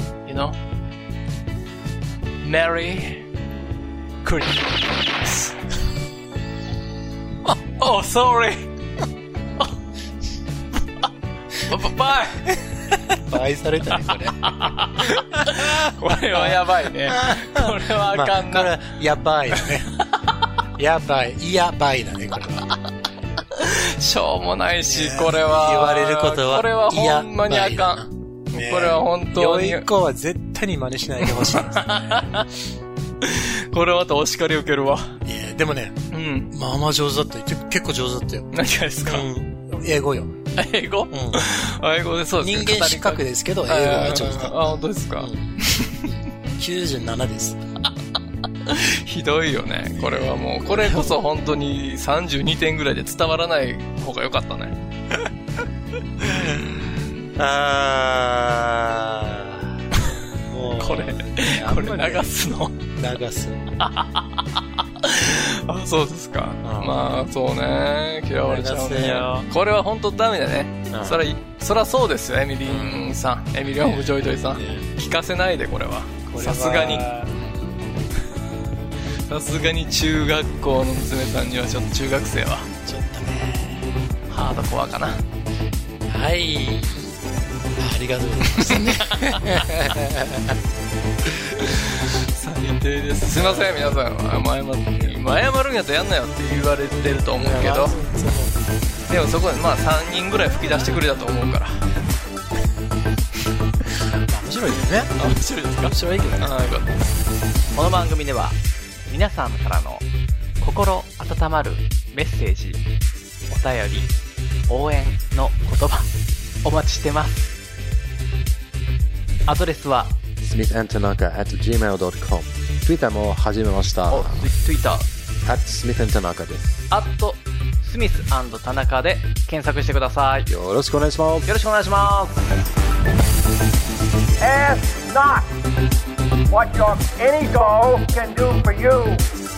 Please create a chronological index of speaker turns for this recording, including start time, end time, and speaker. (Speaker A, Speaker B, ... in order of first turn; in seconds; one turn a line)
Speaker A: 0.2-0.6
Speaker A: 2.4-3.3
Speaker A: 4.2-5.6
Speaker A: 7.5-8.7
Speaker A: 11.7-12.5
Speaker B: 12.5-19.9
Speaker A: 14.1-18.7
Speaker A: 19.5-20.2
Speaker B: 20.8-22.7
Speaker A: 23.5-29.9
Speaker B: 24.8-32.5
Speaker A: 31.2-32.5
Speaker A: 33.2-35.2
Speaker B: 35.2-36.0
Speaker A: 36.1-36.5
Speaker B: 36.5-38.5
Speaker A: 38.5-39.3
Speaker B: 39.0-40.4
Speaker A: 40.6-46.1
Speaker B: 41.1-41.5
Speaker B: 42.4-47.6
Speaker A: 48.6-54.8
Speaker B: 50.0-51.2
Speaker A: 56.2-57.3
Speaker B: 56.2-59.8
Speaker B: 60.4-62.3
Speaker A: 60.8-62.9
Speaker B: 62.9-63.8
Speaker A: 63.8-77.1
Speaker B: 66.6-67.1
Speaker B: 68.4-69.5
Speaker B: 70.9-71.2
Speaker B: 72.7-74.9
Speaker B: 76.3-77.9
Speaker A: 79.3-82.7
Speaker B: 82.8-83.9
Speaker A: 84.3-85.2
Speaker B: 86.1-87.1
Speaker B: 87.8-90.6
Speaker A: 88.6-89.7
Speaker B: 91.3-91.8
Speaker A: 91.6-97.9
Speaker B: 93.3-94.0
Speaker B: 94.9-95.2
Speaker B: 97.0-98.7
Speaker A: 99.1-101.9
Speaker B: 104.3-105.2
Speaker A: 105.2-107.1
Speaker B: 105.8-106.9
Speaker C: 107.7-110.1
Speaker C: 110.6-112.9
Speaker C: 113.5-114.2
Speaker C: 114.7-116.1
Speaker C: 116.6-117.6
Speaker C: 119.5-120.2
Speaker D: 120.4-124.5
Speaker C: 124.1-125.1
Speaker D: 125.4-126.8
Speaker C: 126.9-130.5
Speaker D: 130.5-131.5
Speaker C: 131.5-132.6
Speaker E: 134.4-135.5
Speaker E: 136.5-139.3